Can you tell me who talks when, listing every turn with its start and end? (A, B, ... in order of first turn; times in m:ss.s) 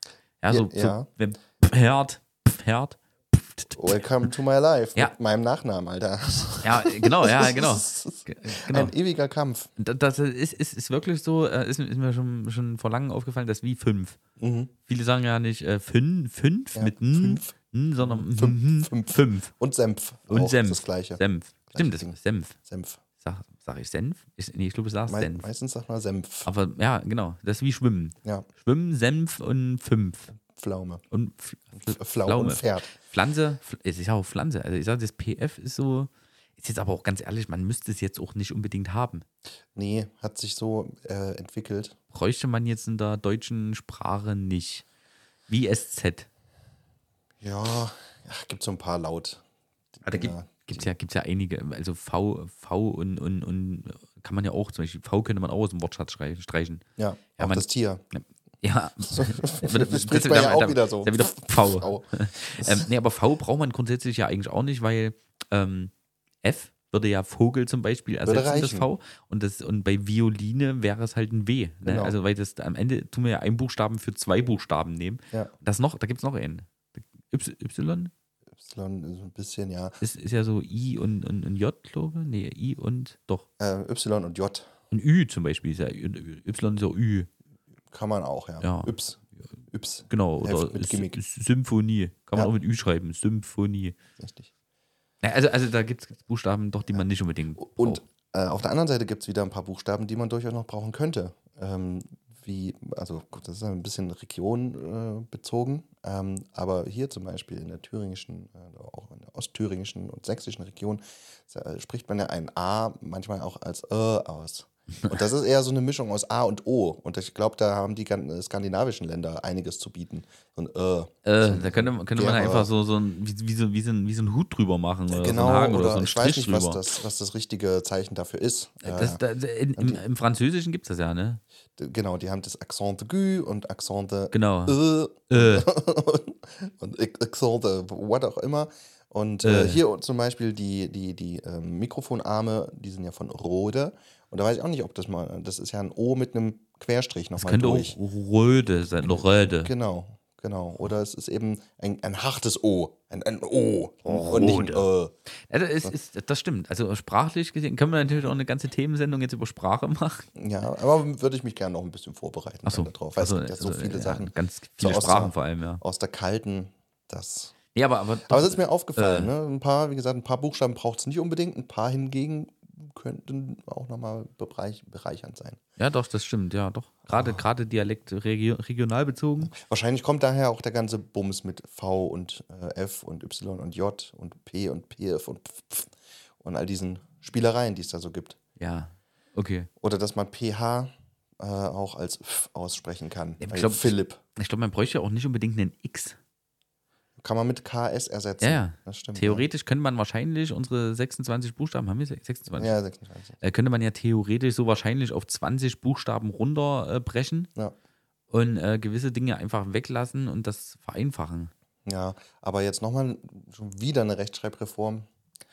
0:00.4-0:04.0 A
0:00.5-0:01.1 B
0:03.7-0:09.7 B
0:06.6-0:08.9 A
0:09.8-0:14.2 A
0:14.4-0:14.7 B
0:14.9-0:19.5 A
0:16.7-0:23.0 B
0:20.3-0:22.6 A
0:23.2-0:25.5 A
0:25.1-0:26.5 B
0:26.4-0:30.3 A
0:30.3-0:31.0 B
0:31.1-0:39.2 A
0:31.7-0:32.9 B
0:39.7-0:42.0 B
0:42.1-0:44.8 A
0:45.5-0:46.3 A
0:47.4-0:49.4 B
0:50.0-0:50.9 B
0:50.0-0:56.8 A
0:57.0-0:58.0 B
0:57.4-1:05.9 A
0:59.0-1:02.9 B
1:06.4-1:18.1 A
1:08.2-1:08.9 B
1:11.8-1:12.1 B
1:18.6-1:20.0 B
1:20.0-1:23.5 A
1:23.6-1:24.7 B
1:24.9-1:27.3 A
1:27.9-1:31.2 B
1:28.6-1:28.9 A
1:30.1-1:34.0 A
1:34.2-1:34.5 B
1:35.2-1:38.0 A
1:37.6-2:02.7 B
2:01.2-2:06.8 A
2:05.1-2:09.2 B
2:08.8-2:11.4 A
2:09.8-2:10.0 B
2:11.8-2:28.0 B
2:14.3-2:14.8 A
2:15.3-2:15.7 A
2:19.4-2:19.8 A
2:27.4-2:29.7 A
2:29.0-2:35.1 B
2:34.0-2:34.9 A
2:35.5-2:40.3 A
2:40.4-2:47.6 B
2:42.6-2:45.8 A
2:47.7-2:49.3 A
2:48.2-2:55.6 B
2:55.8-2:59.5 A
2:57.1-2:57.4 B
2:59.4-3:08.4 B
3:08.6-3:09.7 A
3:09.8-3:14.2 B
3:13.4-3:16.2 A
3:17.2-3:19.4 B
3:18.4-3:22.7 A
3:22.6-3:23.4 B
3:23.4-3:27.5 A
3:28.3-3:31.5 A
3:31.8-3:35.1 B